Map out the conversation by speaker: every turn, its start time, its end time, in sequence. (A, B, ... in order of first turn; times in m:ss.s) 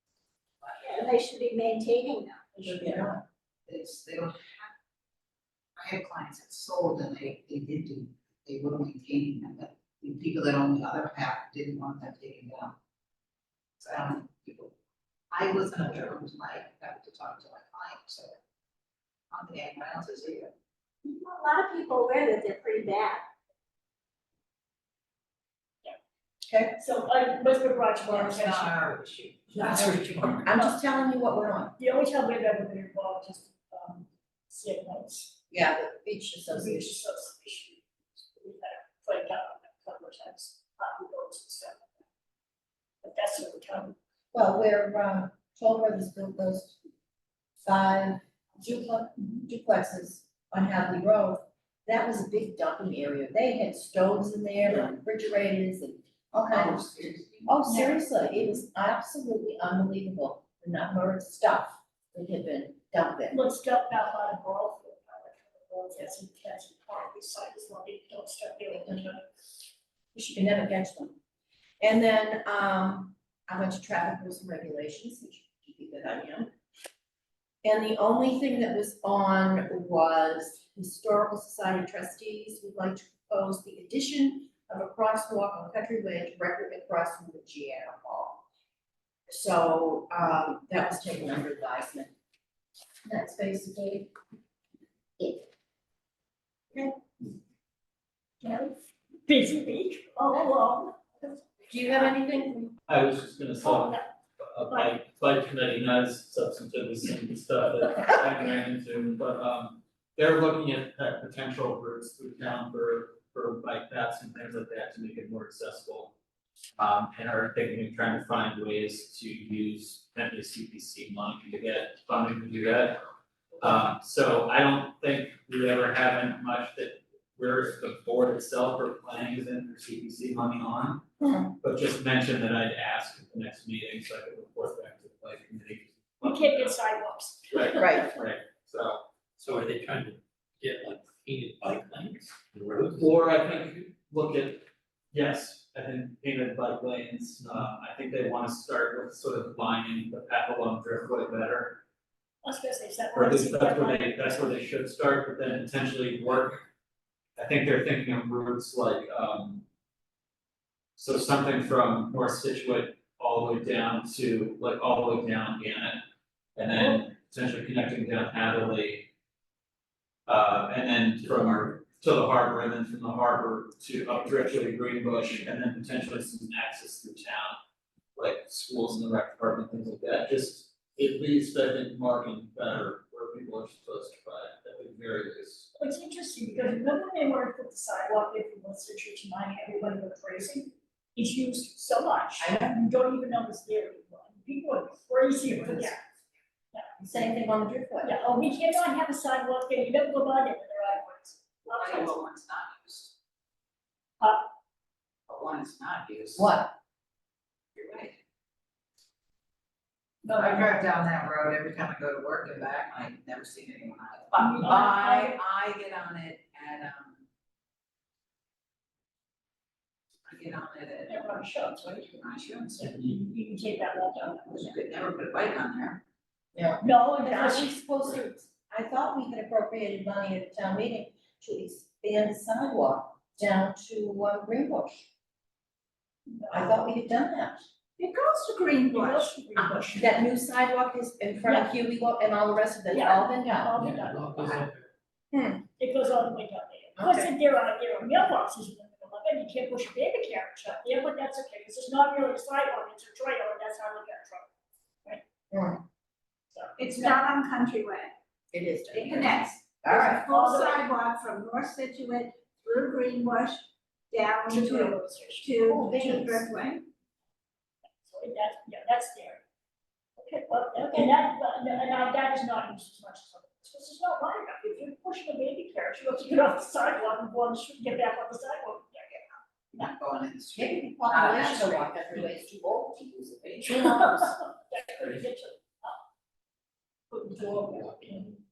0:00.8-0:02.5 A
0:02.6-0:03.1 B
0:02.6-0:03.2 C
0:03.7-0:04.7 D
0:05.8-0:12.8 D
0:13.8-0:14.7 D
0:15.3-0:18.3 D
0:19.3-0:20.5 D
0:21.0-0:23.3 A
0:26.5-0:26.7 C
0:26.7-0:28.8 B
0:28.1-0:30.4 D
0:29.5-0:29.9 B
0:30.4-0:31.7 C
0:31.8-0:35.3 B
0:35.5-0:37.0 C
0:36.5-0:37.8 B
0:38.3-0:41.9 B
0:43.0-0:43.9 B
0:44.3-0:46.8 C
0:47.6-1:03.4 C
0:56.5-0:57.6 D
1:03.3-1:09.4 B
1:10.1-1:11.2 C
1:11.8-1:16.5 C
1:17.6-1:28.4 C
1:29.3-1:32.1 C
1:33.0-1:34.1 C
1:38.4-1:38.7 B
1:39.2-1:41.4 B
1:41.7-1:42.8 C
1:42.9-1:56.1 E
1:43.6-1:44.1 B
1:44.7-1:45.0 B
1:56.8-2:03.0 E
2:03.6-2:11.0 E
2:11.2-2:11.5 C
2:11.6-2:16.8 E
2:16.2-2:18.1 B
2:17.5-2:19.0 E
2:17.8-2:18.1 C
2:19.4-2:23.4 F
2:23.0-2:31.8 E
2:32.4-2:34.2 B
2:33.1-2:36.6 E
2:37.4-2:39.6 E
2:41.0-2:46.0 E
2:46.6-2:49.1 E
2:50.3-2:57.6 E
2:58.2-3:05.7 E
3:05.7-3:16.0 B
3:12.4-3:12.8 C
3:17.0-3:18.6 C
3:18.0-3:22.2 B
3:21.8-3:23.1 D
3:25.3-3:26.5 D
3:26.4-3:26.7 C
3:27.7-3:28.2 D
3:30.2-3:30.8 B
3:30.3-3:37.2 D
3:34.4-3:35.4 B
3:40.2-3:43.1 D
3:41.1-3:41.8 B
3:42.8-3:44.7 B
3:44.5-3:46.0 D
3:46.5-3:55.0 C
3:46.8-3:47.8 B
3:56.3-3:56.8 B
3:56.5-3:57.6 C
3:58.0-3:59.3 A
3:58.9-4:00.2 B
4:00.0-4:03.8 C
4:01.4-4:01.7 B
4:02.9-4:04.6 B
4:03.8-4:04.9 F
4:05.3-4:05.6 C
4:05.8-4:14.5 B
4:07.0-4:07.3 C
4:15.5-4:15.8 C
4:16.5-4:17.2 B
4:16.8-4:18.1 A
4:18.5-4:20.3 C
4:18.9-4:26.9 A
4:20.3-4:20.9 B
4:24.5-4:25.8 B
4:25.6-4:26.5 C
4:28.0-4:29.4 B
4:30.2-4:39.2 B
4:30.8-4:31.1 C
4:39.7-4:44.1 D
4:40.5-4:43.0 C
4:43.6-4:46.0 B
4:43.9-4:44.1 C
4:47.1-4:48.4 B
4:47.7-4:48.1 F